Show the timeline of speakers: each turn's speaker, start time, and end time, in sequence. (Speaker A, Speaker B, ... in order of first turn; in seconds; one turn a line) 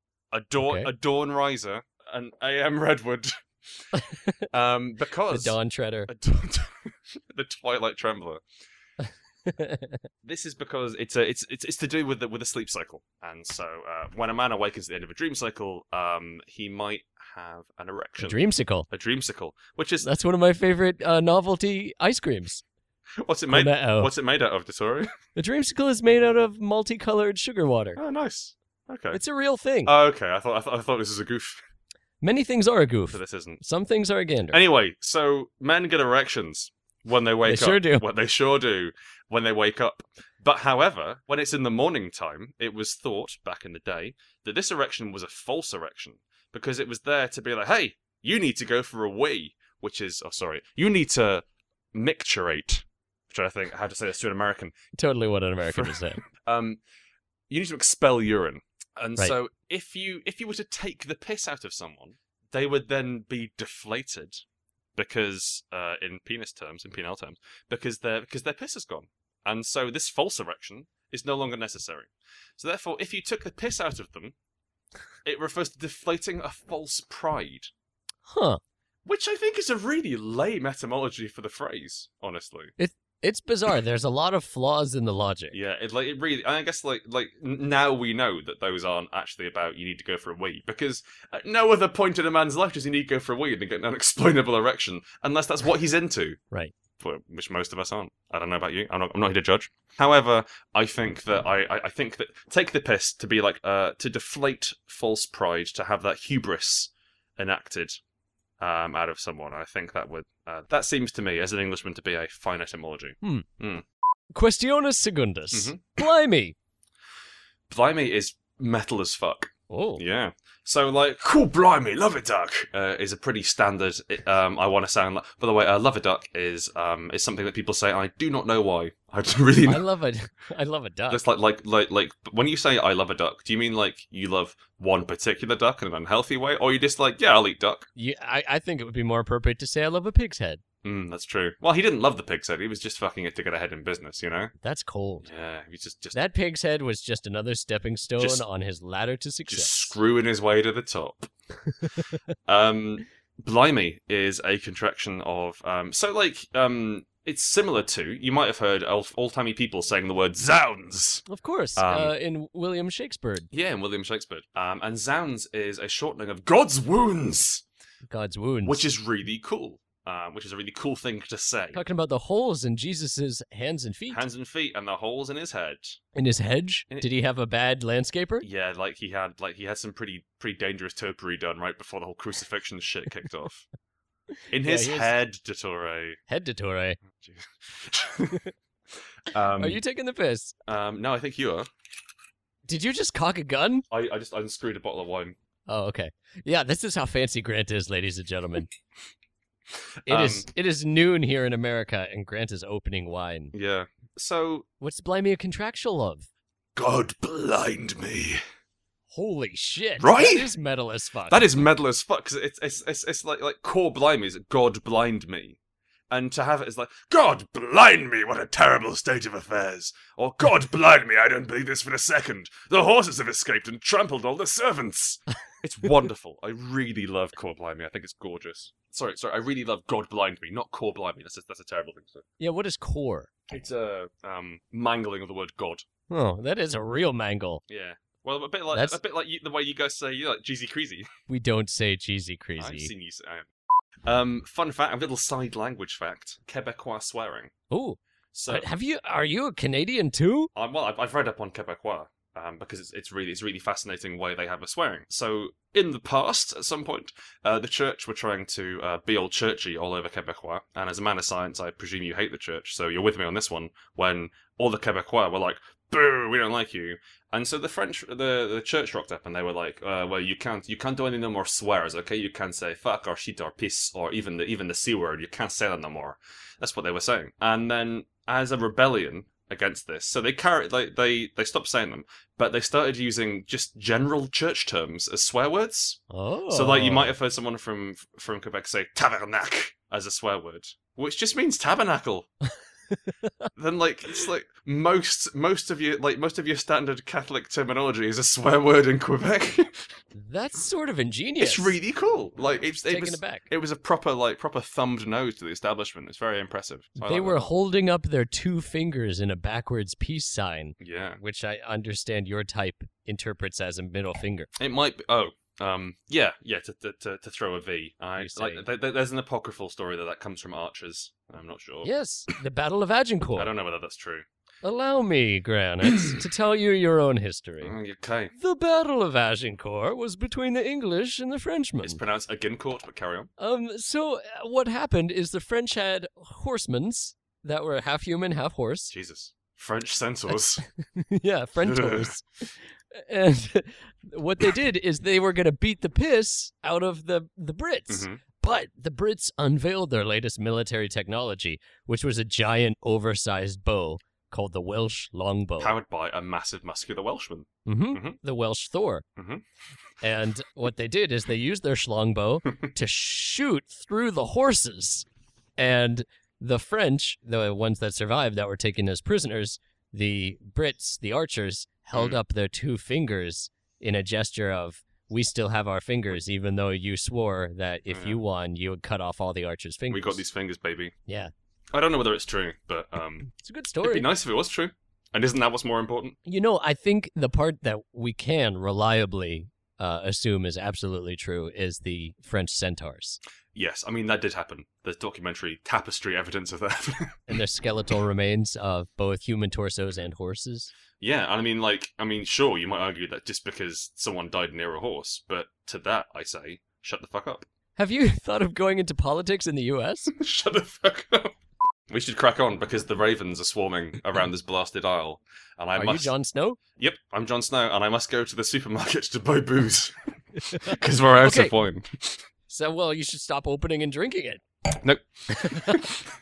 Speaker A: 0.3-3.9
Speaker B: 0.6-0.9
Speaker B: 3.9-4.4
Speaker A: 4.5-5.6
Speaker B: 5.3-6.1
Speaker A: 6.1-8.4
Speaker B: 9.4-10.0
Speaker A: 10.2-20.1
Speaker B: 18.2-18.9
Speaker B: 20.0-22.6
Speaker A: 23.2-25.1
Speaker B: 23.5-24.1
Speaker B: 25.3-28.0
Speaker A: 27.9-29.2
Speaker B: 29.1-29.9
Speaker A: 29.9-31.6
Speaker B: 32.2-34.6
Speaker A: 33.1-33.6
Speaker A: 34.5-54.7
Speaker B: 37.5-38.0
Speaker B: 55.0-56.2
Speaker A: 55.7-56.8
Speaker A: 57.5-64.4
Speaker A: 64.9-74.3
Speaker A: 75.2-77.7
Speaker B: 78.3-78.6
Speaker A: 79.0-82.7
Speaker B: 82.8-85.6
Speaker A: 85.5-96.4
Speaker A: 97.0-108.0
Speaker A: 108.6-113.8
Speaker B: 114.3-116.5
Speaker A: 115.5-116.0
Speaker A: 117.7-129.8
Speaker B: 119.7-120.0
Speaker B: 129.7-131.2
Speaker A: 131.1-137.9
Speaker B: 137.9-140.6
Speaker A: 140.8-144.5
Speaker B: 144.6-145.3
Speaker A: 145.2-146.2
Speaker B: 146.1-149.9
Speaker A: 148.2-148.4
Speaker A: 149.5-151.3
Speaker B: 151.7-152.1
Speaker A: 152.4-161.2
Speaker B: 161.3-163.5
Speaker A: 161.8-162.1
Speaker A: 163.5-167.6
Speaker B: 168.1-168.8
Speaker A: 168.7-171.8
Speaker B: 171.7-174.2
Speaker A: 174.1-176.0
Speaker B: 176.1-178.4
Speaker A: 178.4-183.7
Speaker A: 184.5-186.2
Speaker B: 184.6-185.1
Speaker B: 186.3-187.0
Speaker A: 187.1-188.5
Speaker A: 189.2-189.8
Speaker B: 189.5-190.5
Speaker A: 190.7-191.7
Speaker B: 192.7-193.8
Speaker A: 193.9-195.4
Speaker B: 195.7-198.7
Speaker A: 200.1-200.5
Speaker B: 200.1-203.5
Speaker A: 203.5-204.7
Speaker B: 204.8-206.3
Speaker A: 206.8-208.4
Speaker B: 209.1-211.5
Speaker A: 210.0-210.5
Speaker A: 211.3-215.6
Speaker A: 216.1-232.2
Speaker B: 232.4-233.3
Speaker A: 233.5-235.8
Speaker B: 236.1-237.6
Speaker A: 237.7-241.1
Speaker B: 241.3-242.9
Speaker A: 242.6-243.5
Speaker A: 244.1-247.5
Speaker B: 247.7-248.0
Speaker A: 248.3-248.7
Speaker B: 248.5-250.5
Speaker A: 250.5-292.3
Speaker B: 286.1-287.1
Speaker B: 293.1-293.5
Speaker A: 293.5-299.9
Speaker B: 300.1-301.8
Speaker A: 301.4-307.5
Speaker B: 302.9-303.5
Speaker B: 307.0-314.5
Speaker A: 310.8-311.2
Speaker A: 314.6-321.9
Speaker B: 318.2-318.6
Speaker B: 321.8-323.5
Speaker A: 323.4-324.2
Speaker B: 324.6-327.8
Speaker A: 325.8-326.2
Speaker A: 327.6-328.3
Speaker B: 328.4-332.0
Speaker A: 331.8-333.3
Speaker B: 333.4-338.9
Speaker A: 338.9-340.6
Speaker B: 340.7-355.8
Speaker A: 341.6-342.1
Speaker A: 347.9-348.2
Speaker A: 355.6-358.2
Speaker B: 357.6-359.1
Speaker A: 359.2-359.4
Speaker B: 360.0-365.1
Speaker B: 365.6-380.2
Speaker A: 371.9-372.2
Speaker A: 377.9-378.2
Speaker A: 379.9-380.9
Speaker B: 381.1-381.3
Speaker A: 381.7-386.2
Speaker B: 383.3-384.1
Speaker B: 386.2-393.2
Speaker A: 393.5-397.2
Speaker B: 397.3-400.7
Speaker A: 401.0-407.4
Speaker B: 407.8-410.1
Speaker A: 410.1-411.4
Speaker A: 411.9-416.1
Speaker B: 415.7-416.6
Speaker A: 416.8-419.9
Speaker B: 420.4-421.5
Speaker A: 420.5-422.2
Speaker B: 422.5-424.4
Speaker A: 424.7-426.0
Speaker B: 425.3-425.9